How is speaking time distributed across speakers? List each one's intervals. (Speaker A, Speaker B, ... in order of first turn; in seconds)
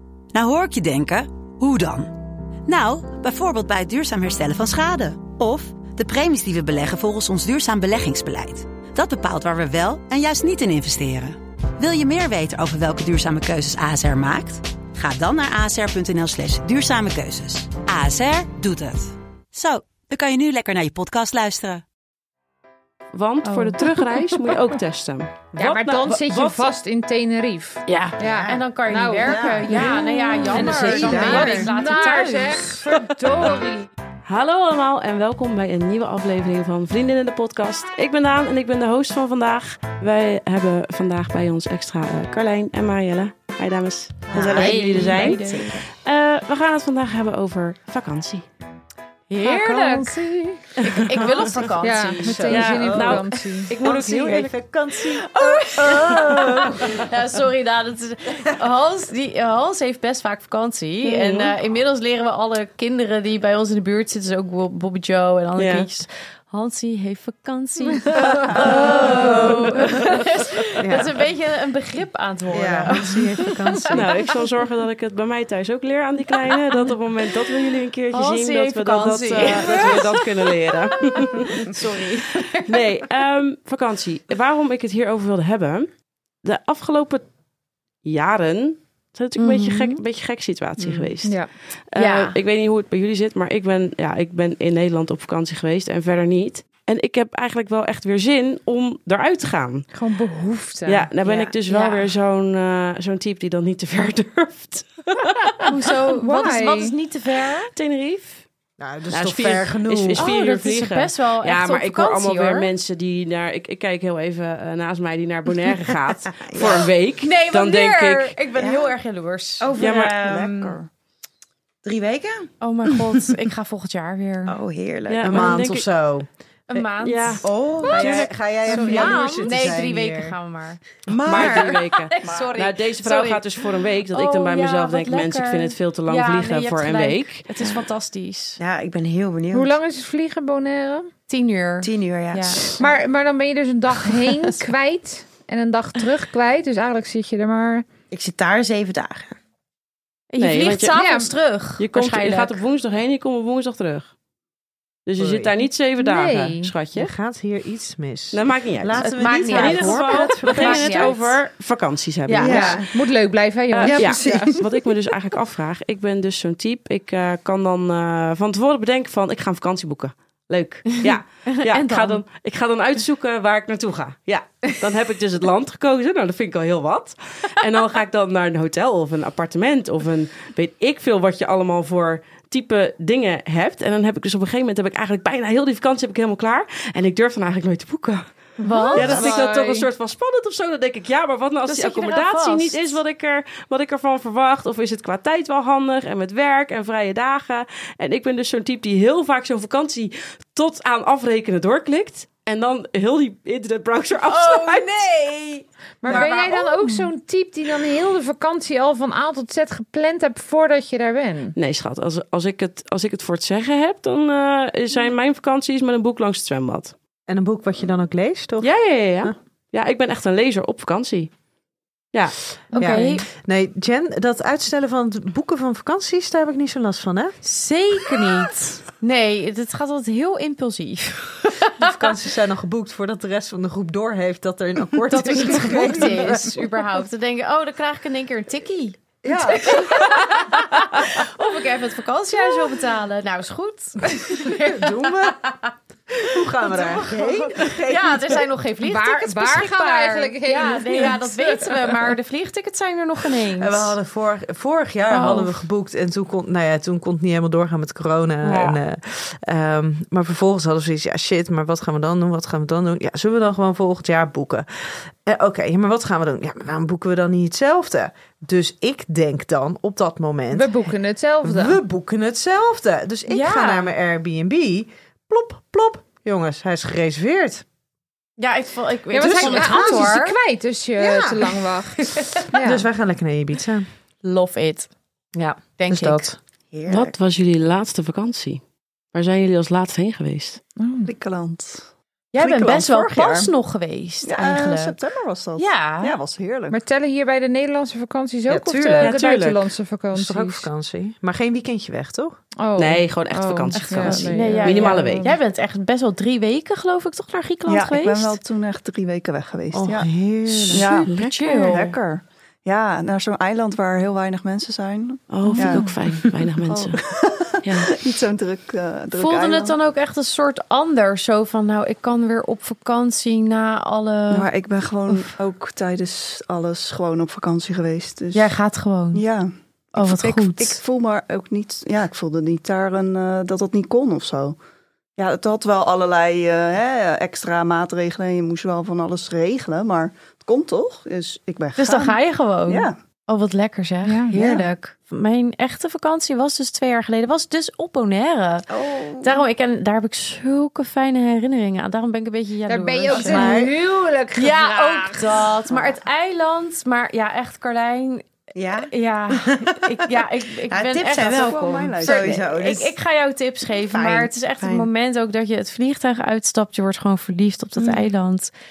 Speaker A: 0.3-21.8
Speaker B: 23.1-26.7, 34.2-48.5, 50.9-51.3, 52.5-54.6, 61.0-61.5, 65.6-65.9, 68.9-69.4, 73.9-81.8, 82.7-85.9, 86.4-87.2, 88.0-91.4, 91.9-99.9, 100.9-105.7, 107.7-108.5, 109.1-118.3, 119.8-120.2, 125.1-125.9, 127.0-127.4, 131.2-137.8, 150.4-150.9, 151.8-154.1, 155.1-157.1, 158.3-162.9, 163.7-188.3, 188.9-205.1, 211.6-216.9, 218.6-221.3, 286.9-288.6, 289.1-290.6, 299.0-299.6, 302.8-305.3, 311.1-311.8, 315.3-317.0, 317.6-317.9
Speaker C: 23.4-24.6, 27.9-32.8, 44.3-45.9, 49.3-52.5, 55.2-74.1, 78.1-82.8, 89.4-90.0, 92.0-92.4, 101.7-102.1, 105.7-107.7, 110.2-112.7, 117.2-119.7, 122.6-124.6, 126.7-138.6, 141.3-142.8, 144.2-144.7, 150.3-152.6, 159.0-161.4, 162.3-162.8, 171.1-172.2, 188.6-189.4, 191.7-193.0, 206.1-207.0, 222.7-223.3, 227.4-232.0, 235.1-245.6, 246.6-254.0, 255.1-255.6, 258.4-258.8, 273.3-273.9, 278.4-280.4, 284.2-284.9, 285.8-286.3, 292.3-295.0, 295.6-296.2, 303.7-308.4, 310.6-312.0, 315.4-316.0, 319.1-324.5, 328.3-329.2, 329.9-330.8, 341.8-353.6, 354.4-368.5
Speaker D: 25.6-33.9, 49.4-50.3, 51.8-53.8, 91.2-91.5, 99.9-101.1, 106.2-107.0, 139.5-141.1, 142.8-147.8, 150.9-151.3, 156.0-156.7, 162.9-164.6, 188.6-189.9, 206.0-211.6, 248.8-252.0, 270.5-271.8, 279.1-282.9, 290.8-291.1, 296.7-300.7, 302.6-305.4, 344.1-344.4, 352.7-355.6
Speaker E: 28.2-28.6, 44.3-44.7, 101.2-101.5, 116.3-116.9, 118.5-118.9, 119.6-120.8, 121.8-122.5, 124.5-125.6, 127.4-128.2, 128.8-129.2, 131.1-131.8, 138.6-139.8, 141.8-142.9, 148.1-149.3, 162.3-163.0, 163.8-164.7, 286.7-287.1, 344.4-344.6, 348.7-349.5, 358.6-362.9, 363.9-364.9
Speaker F: 29.3-29.8, 30.5-31.7, 51.2-53.3, 53.8-57.0, 68.5-70.0, 70.8-71.2, 72.5-74.1, 108.8-110.3, 125.2-126.9, 127.8-130.4, 155.2-155.5, 156.9-161.1, 204.2-206.8, 217.3-219.3, 222.7-227.4, 231.8-236.8, 239.3-239.8, 244.2-248.5, 253.6-270.7, 271.4-277.6, 279.1-280.1, 281.0-281.5, 282.5-283.9, 285.4-286.4, 292.4-293.5, 298.5-299.2, 300.1-302.4, 309.7-311.1, 353.1-353.7
Speaker G: 44.5-45.2, 120.2-120.9, 239.2-239.7, 291.1-291.9, 294.2-296.8, 307.7-310.1, 310.7-315.9, 317.1-319.8, 324.3-328.5, 329.1-334.6, 335.2-342.9, 361.2-362.4